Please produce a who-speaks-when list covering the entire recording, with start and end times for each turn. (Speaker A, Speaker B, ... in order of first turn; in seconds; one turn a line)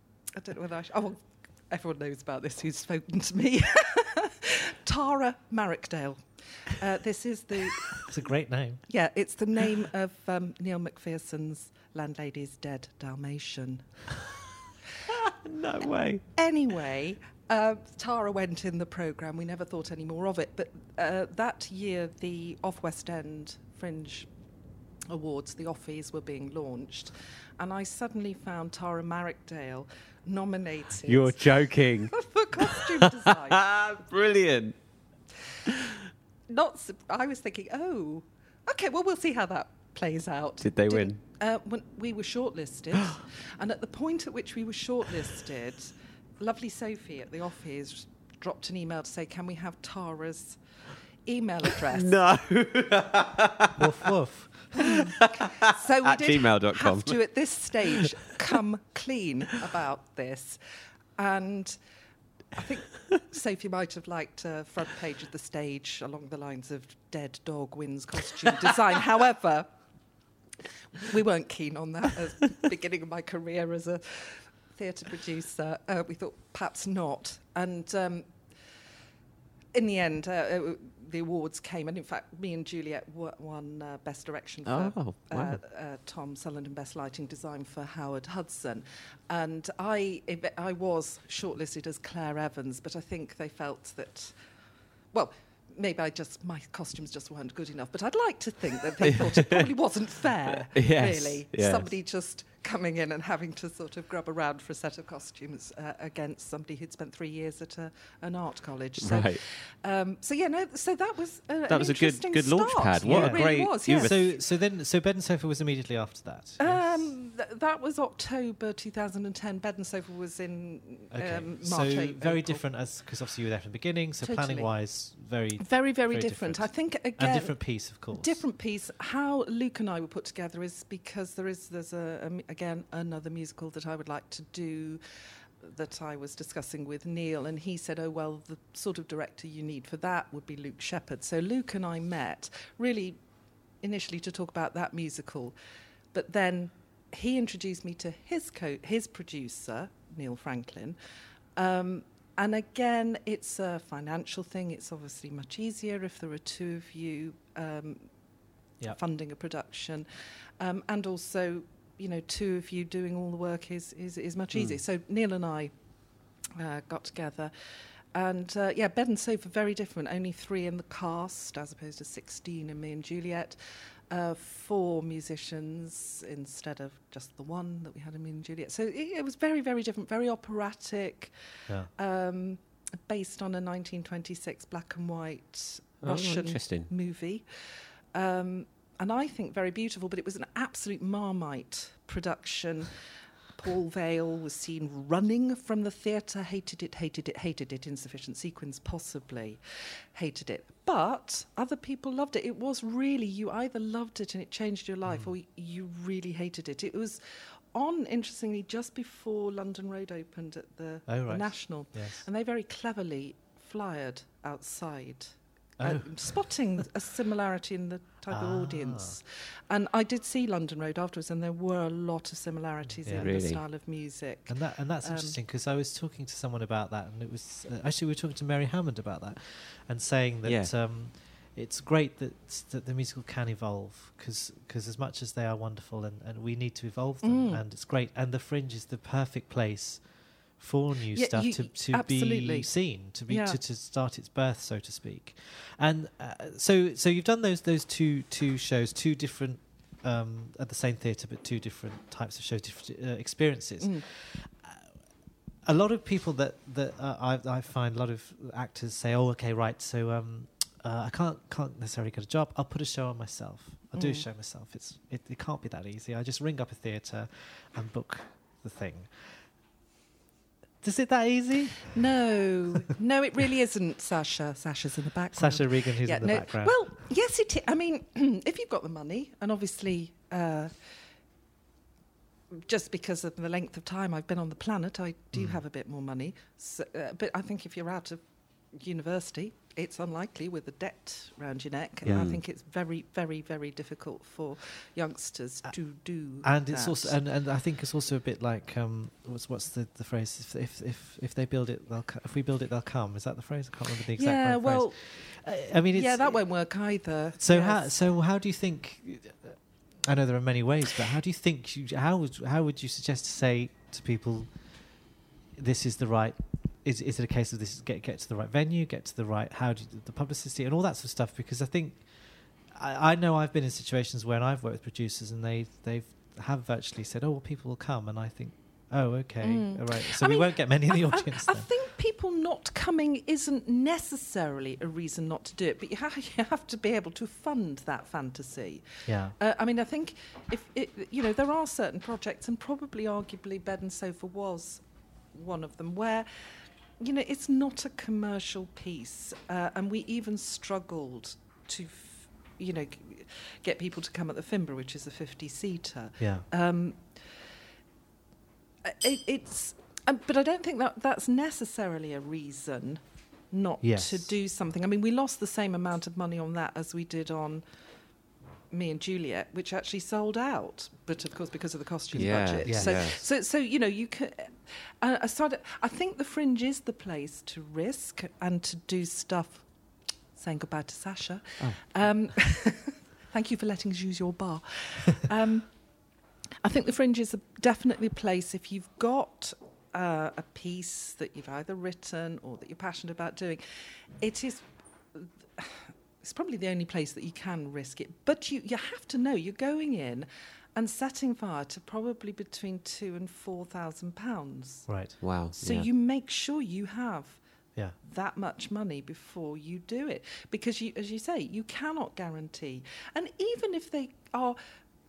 Speaker A: 0.4-8.1
Speaker B: 8.1-8.9
Speaker A: 8.9-14.1
Speaker C: 15.1-16.3
Speaker A: 16.4-24.3
Speaker A: 25.1-33.6
Speaker C: 31.1-32.9
Speaker C: 33.5-34.8
Speaker A: 36.5-50.6
Speaker C: 40.6-41.2
Speaker A: 51.2-52.2
Speaker C: 51.9-54.0
Speaker B: 53.8-55.0
Speaker A: 54.9-60.6
Speaker C: 55.6-57.2
Speaker A: 61.2-61.8
Speaker A: 62.5-69.7
Speaker A: 71.0-78.3
Speaker A: 79.7-94.4
Speaker C: 84.7-85.6
Speaker A: 95.1-114.4
Speaker C: 100.8-101.9
Speaker C: 109.0-109.4
Speaker C: 111.7-114.3
Speaker B: 113.0-117.1
Speaker A: 116.6-122.7
Speaker B: 121.1-128.4
Speaker A: 124.2-124.8
Speaker A: 125.6-135.0
Speaker A: 135.6-143.2
Speaker A: 143.8-145.6
Speaker A: 146.1-151.0
Speaker A: 151.6-158.1
Speaker A: 158.9-165.7
Speaker A: 166.6-181.3
Speaker A: 181.9-192.9
Speaker C: 186.0-186.9
Speaker A: 193.6-199.6
Speaker A: 200.1-207.2
Speaker B: 205.1-205.3
Speaker A: 207.7-225.3
Speaker B: 211.1-212.3
Speaker B: 215.8-216.5
Speaker B: 218.3-219.2
Speaker B: 223.0-223.4
Speaker C: 223.1-223.6
Speaker B: 224.5-254.9
Speaker C: 230.4-230.7
Speaker A: 237.2-237.6
Speaker A: 241.1-242.8
Speaker A: 243.3-243.6
Speaker A: 253.8-254.1
Speaker B: 255.7-269.4
Speaker A: 263.9-264.3
Speaker B: 270.8-272.0
Speaker A: 271.9-280.9
Speaker B: 275.3-276.8
Speaker A: 282.5-297.2
Speaker C: 292.1-292.4
Speaker B: 296.4-306.4
Speaker A: 304.1-308.0
Speaker B: 307.4-314.8
Speaker B: 315.6-331.7
Speaker A: 329.4-357.4
Speaker B: 339.1-339.4
Speaker B: 356.2-356.5
Speaker A: 358.9-367.6
Speaker B: 363.8-364.2
Speaker A: 368.7-379.7
Speaker C: 372.1-373.3
Speaker B: 372.6-373.0
Speaker A: 380.4-385.7
Speaker A: 386.6-404.9
Speaker B: 404.9-405.2
Speaker C: 405.2-405.9
Speaker A: 405.5-407.4
Speaker A: 408.0-414.6